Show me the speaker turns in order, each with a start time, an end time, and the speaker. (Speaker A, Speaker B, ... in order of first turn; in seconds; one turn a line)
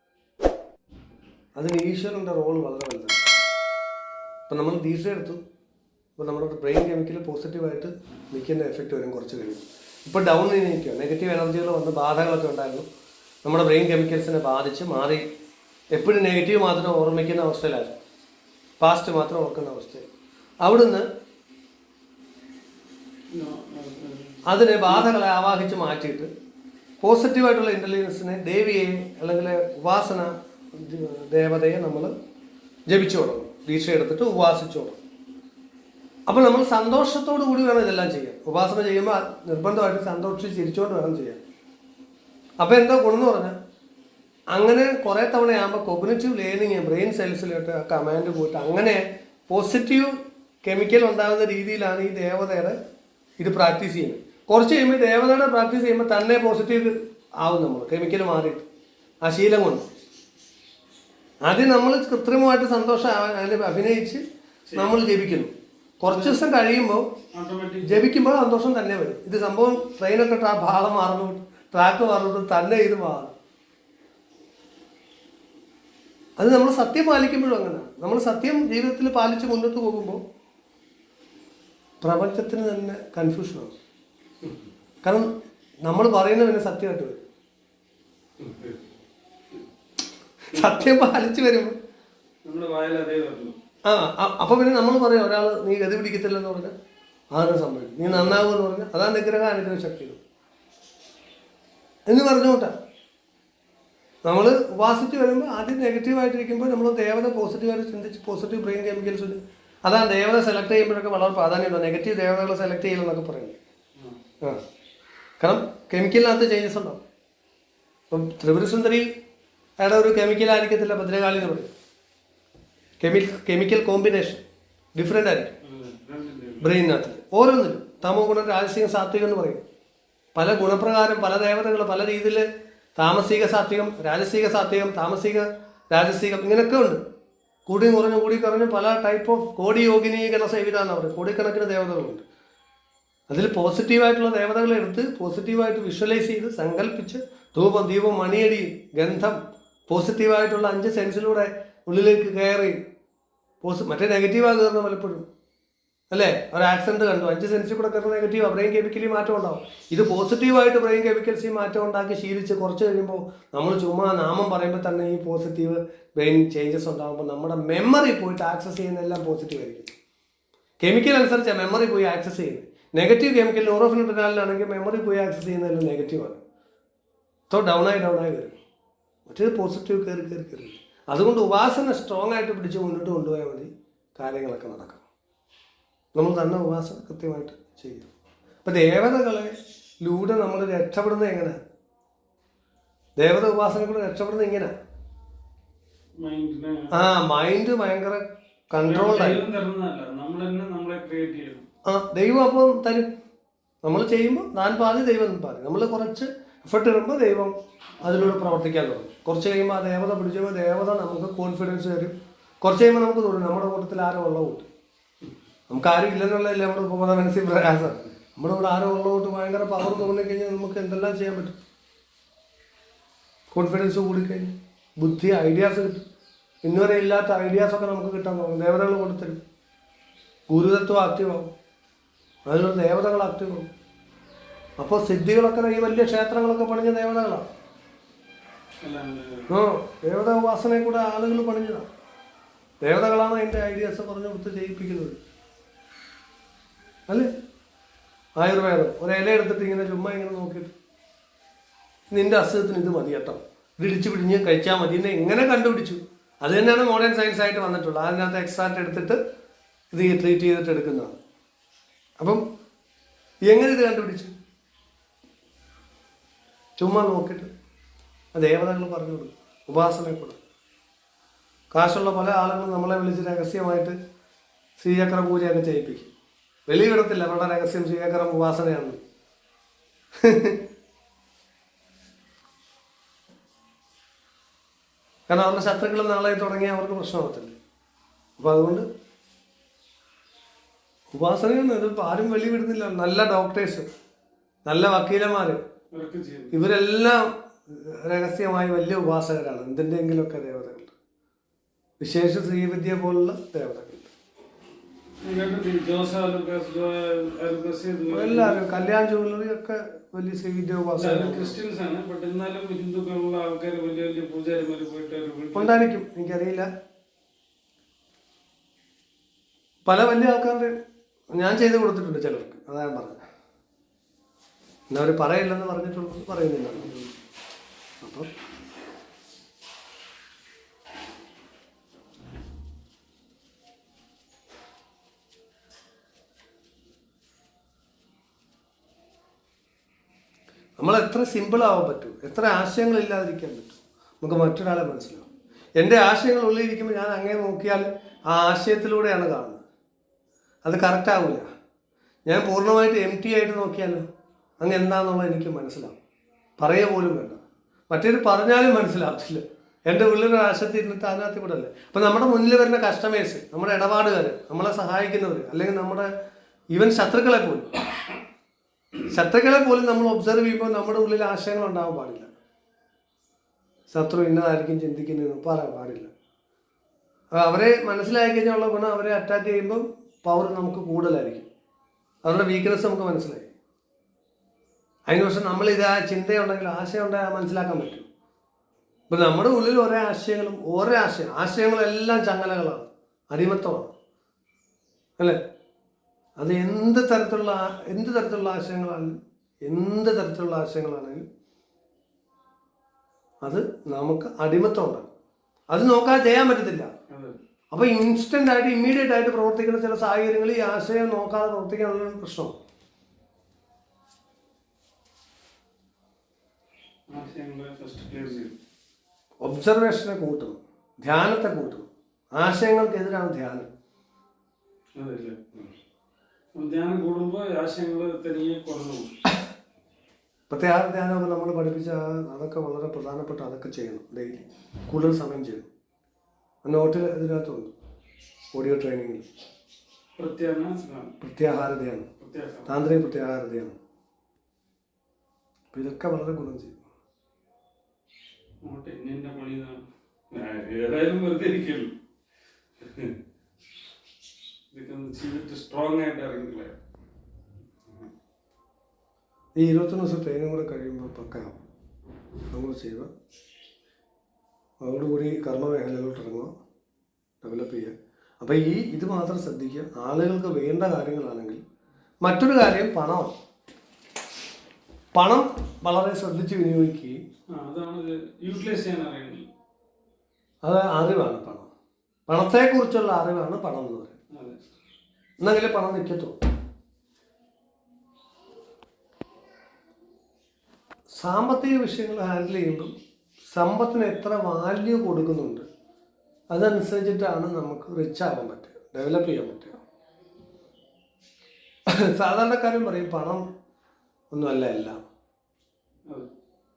Speaker A: 1.6-3.3
Speaker A: 4.5-5.4
Speaker A: 6.2-12.8
Speaker A: 13.4-15.2
Speaker A: 15.9-17.9
Speaker A: 18.8-20.1
Speaker A: 20.6-21.1
Speaker B: 23.3-25.1
Speaker A: 24.4-26.3
Speaker A: 27.0-32.1
Speaker A: 32.9-35.0
Speaker A: 36.3-41.4
Speaker A: 42.6-43.5
Speaker A: 44.5-52.8
Speaker A: 53.4-58.6
Speaker A: 59.2-59.9
Speaker A: 61.4-64.2
Speaker B: 64.7-65.0
Speaker A: 64.7-67.0
Speaker B: 66.1-66.4
Speaker B: 67.3-68.1
Speaker A: 67.8-73.3
Speaker A: 76.4-80.2
Speaker A: 82.0-83.7
Speaker A: 85.0-85.3
Speaker A: 85.8-87.2
Speaker B: 88.4-88.9
Speaker A: 90.5-91.8
Speaker B: 90.5-90.9
Speaker B: 92.4-93.5
Speaker A: 93.8-96.7
Speaker A: 97.3-100.2
Speaker B: 98.1-98.4
Speaker A: 102.1-102.7
Speaker A: 104.2-113.6
Speaker A: 115.4-117.0
Speaker A: 118.1-119.1
Speaker A: 119.8-121.7
Speaker A: 123.0-124.4
Speaker A: 125.0-125.5
Speaker B: 125.6-126.7
Speaker A: 126.6-129.6
Speaker A: 130.3-132.4
Speaker A: 133.0-137.0
Speaker A: 137.7-142.2
Speaker A: 143.3-152.8
Speaker A: 153.6-155.2
Speaker A: 156.1-169.9
Speaker A: 170.8-176.4
Speaker A: 177.5-178.6
Speaker A: 179.2-185.0
Speaker A: 186.1-188.1
Speaker A: 188.6-191.6
Speaker A: 193.2-194.7
Speaker B: 196.2-197.1
Speaker A: 196.9-199.4
Speaker B: 198.8-201.6
Speaker A: 201.8-203.1
Speaker A: 203.8-214.7
Speaker B: 208.1-208.5
Speaker A: 215.7-221.6
Speaker A: 223.5-226.0
Speaker A: 226.6-229.4
Speaker A: 230.5-231.5
Speaker A: 232.4-233.7
Speaker A: 234.8-237.4
Speaker B: 238.8-239.5
Speaker A: 239.5-241.9
Speaker A: 242.8-245.2
Speaker A: 248.4-250.7
Speaker A: 252.1-259.2
Speaker A: 259.9-261.2
Speaker A: 263.4-264.3
Speaker A: 266.8-267.5
Speaker A: 268.3-270.4
Speaker A: 271.7-273.9
Speaker A: 274.8-276.1
Speaker A: 276.7-279.0
Speaker A: 280.2-280.6
Speaker A: 285.3-287.6
Speaker A: 288.4-288.9
Speaker A: 291.1-293.9
Speaker A: 294.6-295.6
Speaker B: 295.9-296.5
Speaker A: 296.5-300.9
Speaker A: 302.0-304.1
Speaker B: 305.2-308.8
Speaker A: 308.1-311.6
Speaker B: 311.0-315.9
Speaker A: 315.5-316.7
Speaker A: 319.8-320.7
Speaker A: 321.3-323.2
Speaker A: 324.9-326.9
Speaker B: 326.7-327.1
Speaker A: 328.0-328.3
Speaker A: 340.8-345.2
Speaker A: 345.8-349.6
Speaker A: 350.6-351.4
Speaker A: 352.2-354.0
Speaker A: 354.6-355.9
Speaker A: 356.6-366.1
Speaker A: 366.7-367.7
Speaker A: 369.1-372.3
Speaker A: 373.9-376.1
Speaker A: 377.3-381.5
Speaker A: 382.2-383.5
Speaker A: 385.1-388.1
Speaker A: 389.1-393.9
Speaker A: 396.4-401.2
Speaker A: 403.4-405.1
Speaker A: 405.7-406.9
Speaker B: 407.1-407.4
Speaker A: 407.7-412.5
Speaker B: 417.1-418.5
Speaker A: 419.4-423.7
Speaker B: 424.9-425.7
Speaker B: 426.5-429.1
Speaker A: 430.5-435.7
Speaker A: 436.6-437.7
Speaker A: 438.5-439.2
Speaker B: 440.2-441.1
Speaker A: 441.2-442.1
Speaker B: 442.2-442.7
Speaker A: 442.7-443.8
Speaker A: 445.7-446.8
Speaker B: 448.6-451.9
Speaker B: 452.8-453.1
Speaker B: 454.7-456.8
Speaker A: 459.6-461.6
Speaker A: 462.5-463.1
Speaker A: 464.8-466.5
Speaker A: 467.4-471.6
Speaker A: 472.2-473.3
Speaker A: 475.1-477.2
Speaker B: 477.5-479.5
Speaker A: 480.6-481.7
Speaker A: 482.3-484.1
Speaker B: 484.3-484.6
Speaker A: 485.4-486.4
Speaker A: 491.1-492.9
Speaker A: 493.5-495.6
Speaker A: 496.5-499.8
Speaker A: 501.9-503.4
Speaker A: 504.3-505.0